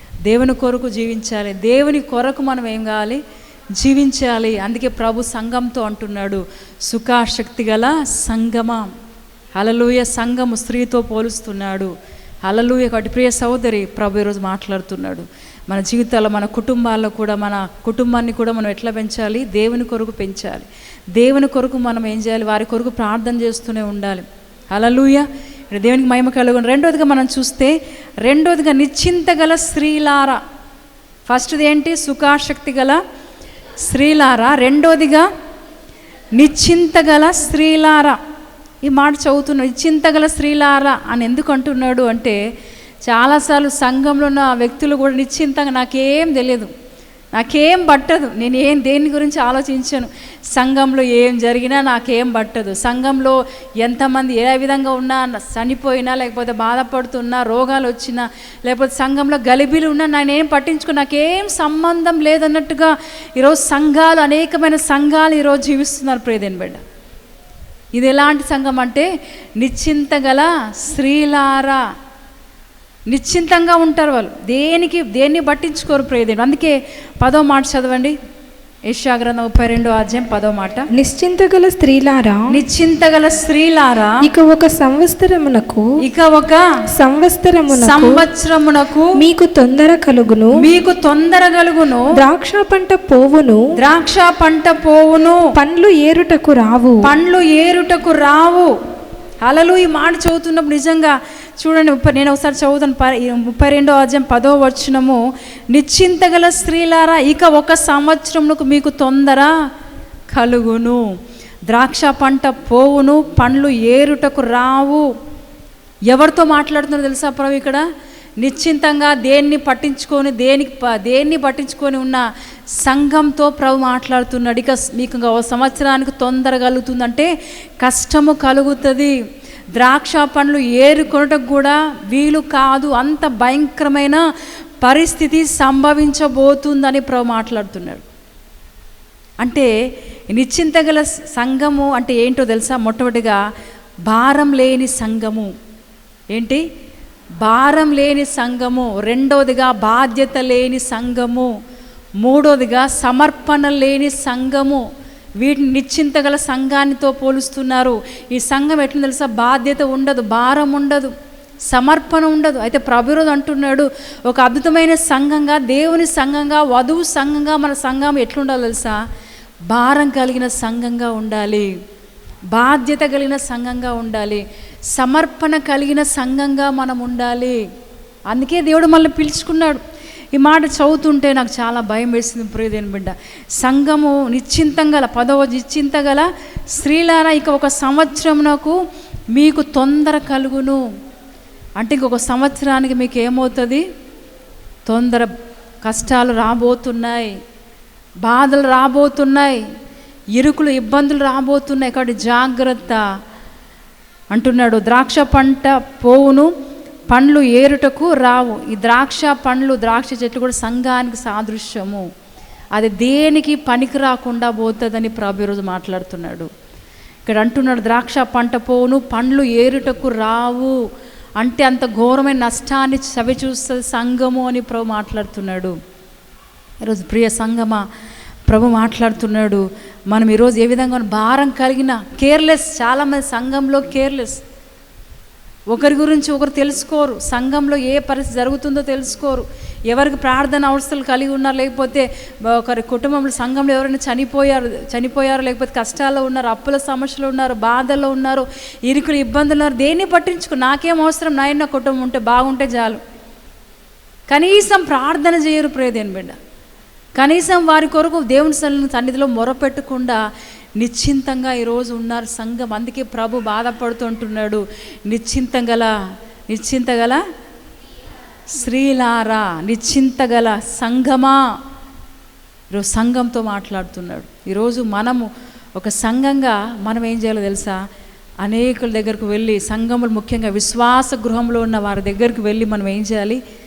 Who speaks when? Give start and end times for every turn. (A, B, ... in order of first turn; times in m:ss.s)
0:00.2-0:03.2 A
0:03.8-0:08.9 A
0:09.5-0:11.9 A
0:12.4-0:30.4 A
0:31.3-0:33.0 A
0:33.8-0:35.3 A
0:36.4-0:38.2 A
0:38.8-0:42.4 A
0:43.0-0:46.7 A
0:47.3-1:06.8 A
1:07.9-1:09.1 A
1:09.6-1:11.8 A
1:13.1-1:18.2 A
1:18.9-1:20.9 A
1:21.0-1:22.5 B
1:22.5-1:24.2 A
1:24.2-1:25.9 B
1:26.0-1:26.6 A
1:27.0-1:28.2 B
1:27.7-1:29.1 A
1:29.2-1:30.6 B
1:30.6-1:32.1 A
1:32.1-1:33.6 B
1:33.7-1:35.5 A
1:35.5-1:37.1 B
1:37.0-1:38.7 A
1:39.4-1:49.5 A
1:50.3-1:51.0 A
1:51.7-1:55.0 A
1:56.1-1:57.8 A
1:58.4-2:02.2 A
2:02.8-2:07.3 A
2:07.8-2:09.2 A
2:09.8-2:14.2 A
2:14.8-2:18.0 A
2:19.4-2:19.7 A
2:20.3-2:23.4 A
2:24.1-2:25.5 A
2:26.3-2:26.6 A
2:27.4-2:31.5 A
2:32.2-2:34.8 A
2:35.4-2:41.1 A
2:41.7-2:49.0 A
2:49.7-2:51.7 A
2:52.5-2:57.6 A
2:58.3-2:59.8 A
3:00.3-3:08.8 A
3:09.3-3:10.8 A
3:11.8-3:13.8 A
3:14.9-3:15.3 A
3:15.8-3:17.3 A
3:18.2-3:19.6 A
3:20.3-3:23.0 A
3:24.3-3:26.5 A
3:27.1-3:32.0 A
3:32.7-3:36.5 A
3:37.2-3:40.8 A
3:41.4-3:45.8 A
3:46.8-3:47.8 A
3:48.5-3:54.4 A
3:55.7-4:13.0 A
4:14.3-4:16.4 A
4:17.2-4:20.2 A
4:20.8-4:25.9 A
4:26.5-4:27.2 A
4:28.5-4:31.4 A
4:32.7-4:37.8 A
4:38.4-4:43.4 A